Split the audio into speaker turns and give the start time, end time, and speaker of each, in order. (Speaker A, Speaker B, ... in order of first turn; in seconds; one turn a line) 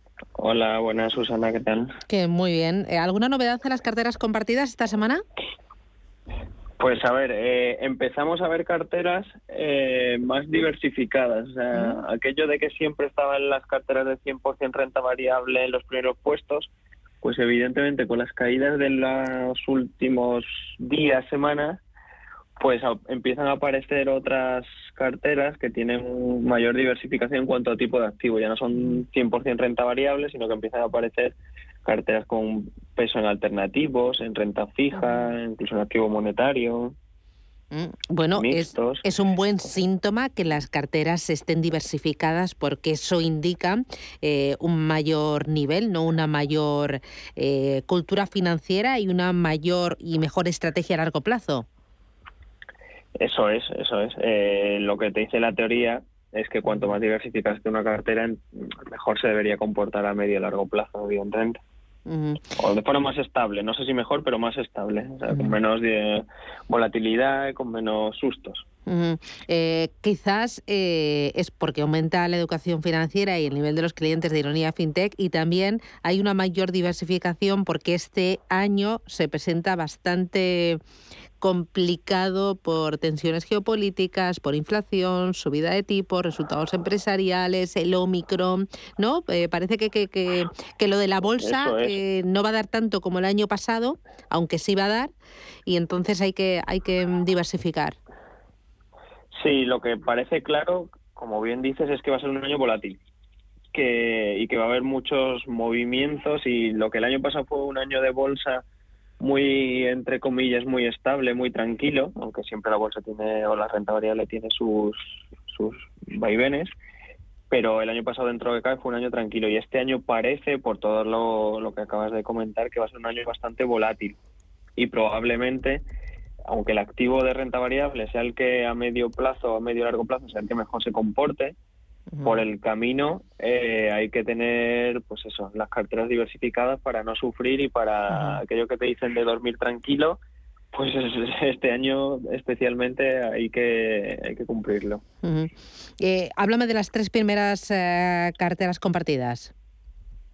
Speaker A: 0.4-1.9
Speaker B: 2.1-5.2
Speaker A: 6.8-16.7
Speaker A: 17.2-21.8
Speaker A: 22.6-37.0
Speaker B: 34.9-35.3
Speaker B: 37.7-51.7
Speaker A: 38.3-39.0
Speaker A: 53.2-61.6
Speaker B: 62.1-62.4
Speaker A: 62.6-68.6
Speaker B: 65.3-65.6
Speaker B: 68.9-80.8
Speaker B: 81.4-95.1
Speaker A: 91.4-92.0
Speaker B: 95.7-98.0
Speaker A: 99.3-103.0
Speaker A: 103.7-108.6
Speaker A: 109.2-116.7
Speaker A: 117.5-124.2
Speaker A: 124.8-125.8
Speaker A: 126.5-131.5
Speaker B: 132.1-132.4
Speaker A: 132.2-140.2
Speaker B: 138.1-138.4
Speaker A: 140.7-145.0
Speaker B: 145.2-149.5